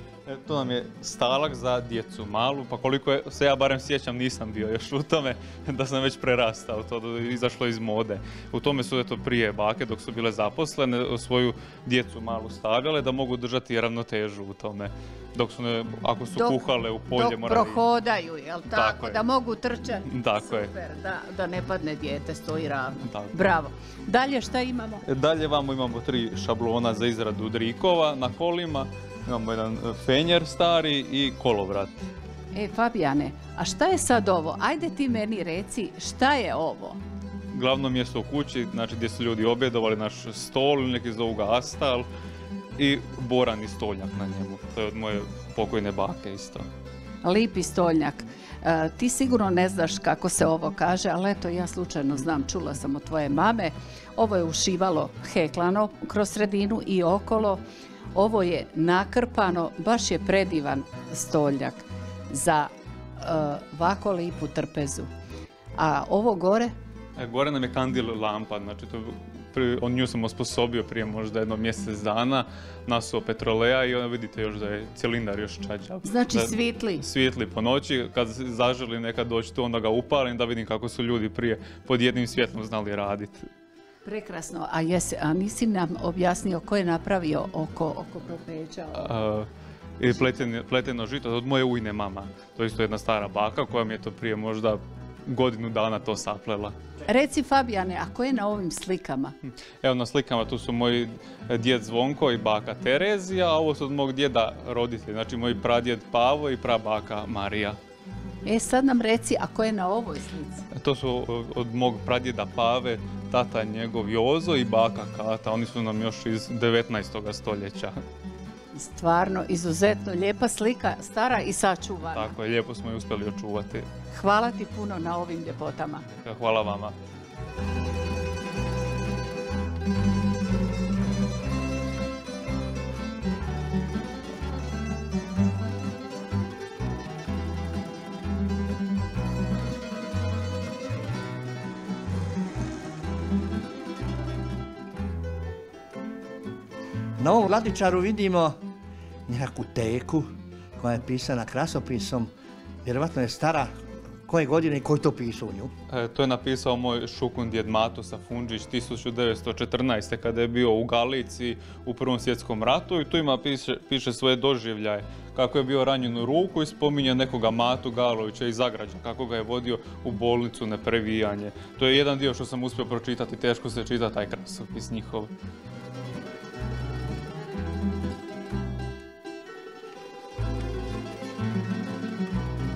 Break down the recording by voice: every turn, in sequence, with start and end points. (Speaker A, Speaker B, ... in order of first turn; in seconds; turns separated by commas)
Speaker A: 0.2-17.8, Speaker B: 16.4-25.0, Speaker A: 18.7-19.2, Speaker A: 20.1-20.7, Speaker A: 23.0-23.3, Speaker A: 25.0-32.1, Speaker B: 32.5-37.0, Speaker A: 37.5-42.1, Speaker A: 42.8-46.7, Speaker B: 47.2-57.6, Speaker B: 58.1-65.1, Speaker B: 65.8-66.7, Speaker A: 67.2-83.5, Speaker B: 76.0-77.0, Speaker B: 84.0-89.1, Speaker A: 89.0-89.5, Speaker A: 90.0-96.8, Speaker B: 90.0-90.4, Speaker B: 97.0-99.3, Speaker A: 99.5-107.8, Speaker B: 108.4-110.6, Speaker A: 110.7-118.0, Speaker B: 118.7-122.3, Speaker A: 122.1-123.9, Speaker B: 124.1-126.0, Speaker A: 126.2-126.9, Speaker C: 147.2-148.6, Speaker C: 149.3-150.3, Speaker C: 150.8-152.3, Speaker C: 152.8-153.7, Speaker C: 154.3-155.7, Speaker A: 155.9-175.3